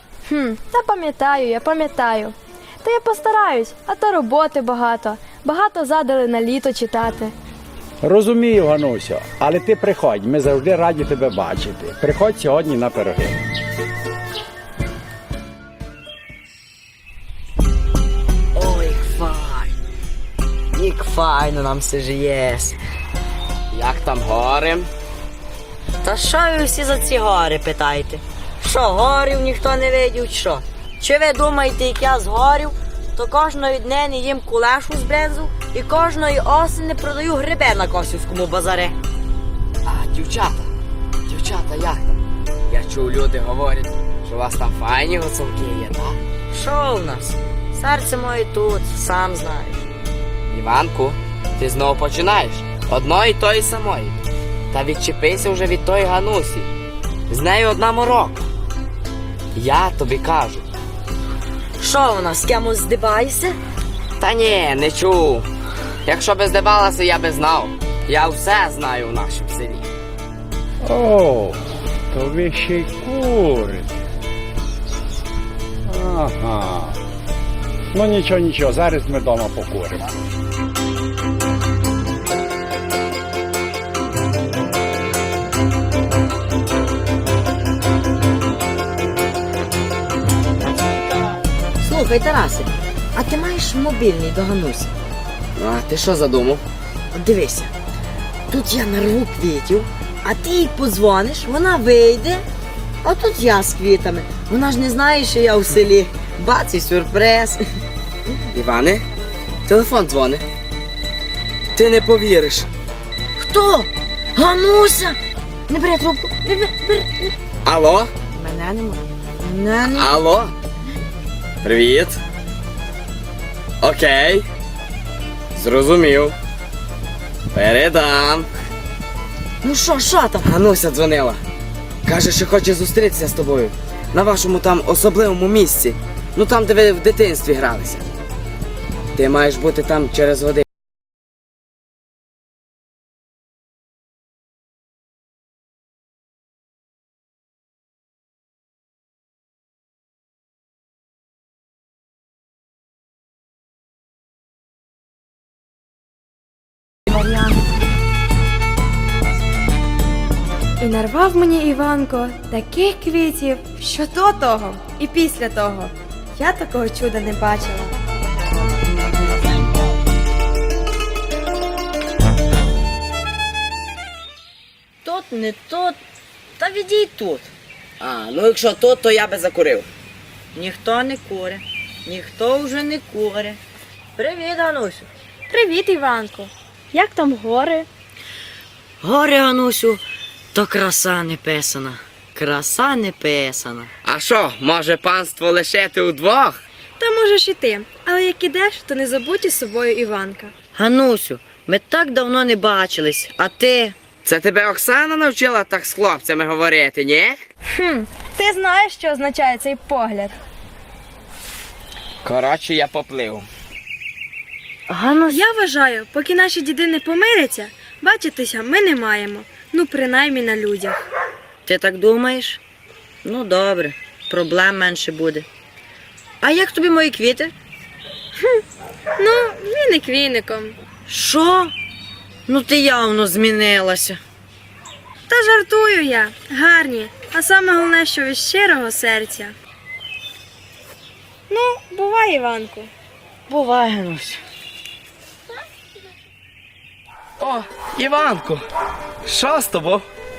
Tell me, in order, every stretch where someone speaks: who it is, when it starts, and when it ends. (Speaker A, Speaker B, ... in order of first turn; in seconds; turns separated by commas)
Speaker A: 0.3-7.3, Speaker B: 8.0-13.4, Speaker C: 18.6-19.7, Speaker C: 20.7-22.8, Speaker D: 23.7-24.9, Speaker C: 26.0-38.9, Speaker D: 39.9-40.7, Speaker D: 41.3-42.2, Speaker D: 42.7-46.2, Speaker C: 46.5-49.9, Speaker D: 50.5-54.1, Speaker D: 54.7-56.7, Speaker D: 57.3-58.4, Speaker D: 59.5-60.6, Speaker C: 61.8-63.5, Speaker D: 64.2-65.4, Speaker D: 66.0-69.8, Speaker B: 70.8-71.6, Speaker B: 72.1-73.9, Speaker B: 75.9-77.0, Speaker B: 77.9-80.1, Speaker C: 91.8-94.9, Speaker D: 95.5-96.6, Speaker C: 97.1-97.7, Speaker C: 98.5-102.4, Speaker C: 103.0-107.6, Speaker D: 108.5-109.0, Speaker D: 109.7-110.4, Speaker D: 111.8-112.7, Speaker C: 113.4-115.2, Speaker C: 115.7-117.3, Speaker D: 117.6-118.1, Speaker C: 118.3-120.2, Speaker D: 119.9-120.5, Speaker D: 121.6-122.2, Speaker D: 123.8-124.5, Speaker D: 125.5-126.3, Speaker D: 127.5-128.5, Speaker C: 129.6-130.5, Speaker D: 130.4-131.4, Speaker D: 132.0-138.1, Speaker D: 139.2-140.6, Speaker A: 157.1-157.5, Speaker A: 160.8-167.9, Speaker C: 175.0-176.0, Speaker C: 176.6-177.5, Speaker D: 178.0-179.8, Speaker C: 180.5-183.6, Speaker C: 184.2-185.1, Speaker A: 185.5-187.9, Speaker C: 189.0-190.0, Speaker C: 190.5-193.9, Speaker D: 194.0-196.6, Speaker A: 197.0-200.5, Speaker C: 200.7-203.9, Speaker D: 204.2-207.4, Speaker A: 207.7-210.3, Speaker D: 212.2-213.4, Speaker C: 214.9-215.4, Speaker A: 215.3-220.9, Speaker C: 221.6-222.6, Speaker C: 223.2-225.5, Speaker C: 226.4-227.5, Speaker A: 229.2-230.8, Speaker C: 231.1-231.7, Speaker C: 232.5-234.2, Speaker A: 235.3-239.5, Speaker A: 241.5-242.9, Speaker C: 243.5-244.4, Speaker D: 247.4-248.6, Speaker D: 249.2-250.0